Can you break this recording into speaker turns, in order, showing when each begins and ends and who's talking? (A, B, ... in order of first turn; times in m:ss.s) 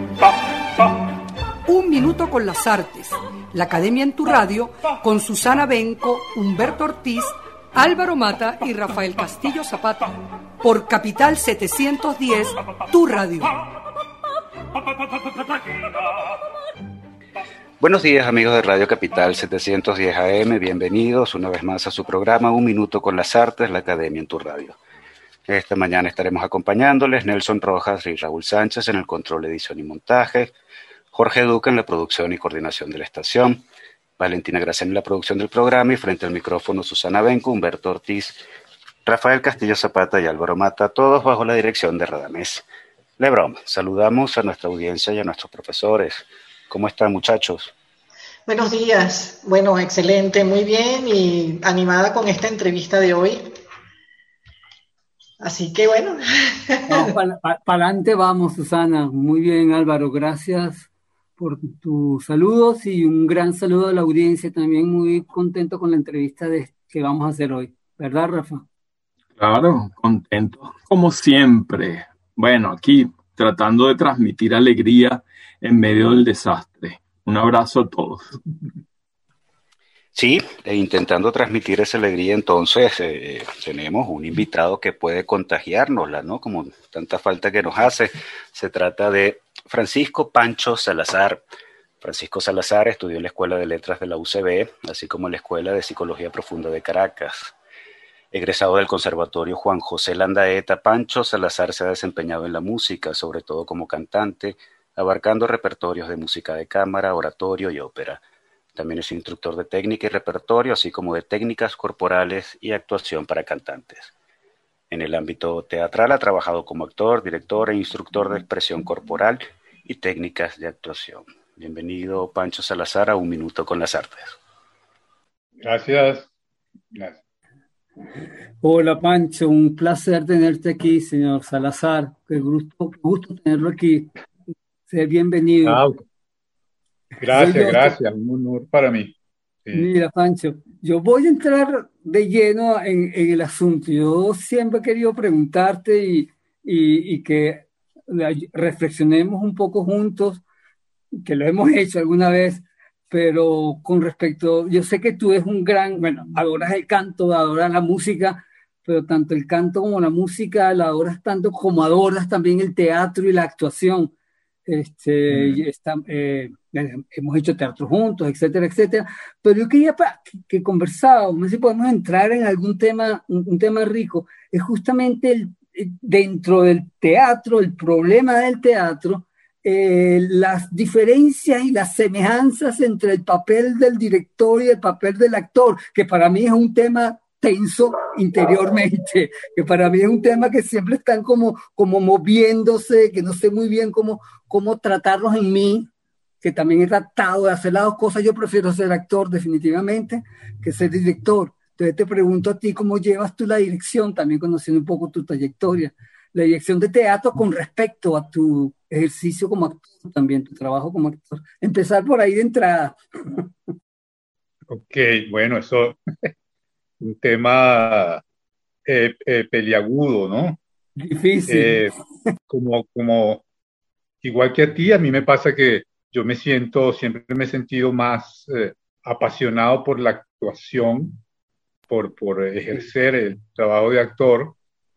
0:01.6-0:13.5 A
0:17.8-0:24.8 B
0:25.5-0:30.5 B
0:31.1-0:33.6 B
0:34.2-0:38.4 B
0:39.0-0:42.6 B
0:43.2-0:47.7 B
0:48.5-0:53.4 C
0:55.4-0:57.1 C
0:56.9-1:08.6 D
1:09.4-1:18.4 E
1:20.1-1:31.4 B
1:32.0-1:37.5 B
1:38.3-1:48.2 B
1:48.7-1:54.1 B
1:54.9-2:04.4 B
2:05.6-2:06.3 F
2:06.9-2:07.2 F
2:08.6-2:14.1 D
2:14.9-2:15.8 D
2:15.6-2:16.0 F
2:17.2-2:19.9 F
2:17.3-2:17.9 D
2:19.7-2:30.4 D
2:31.2-2:44.1 D
2:44.6-3:15.9 D
2:45.3-2:45.6 F
3:16.4-3:33.4 D
3:34.7-3:36.3 F
3:37.0-3:38.2 F
3:38.8-3:40.6 F
3:41.0-3:42.3 D
3:41.5-3:41.9 F
3:42.5-3:43.4 F
3:44.2-3:51.2 F
3:51.9-3:54.6 F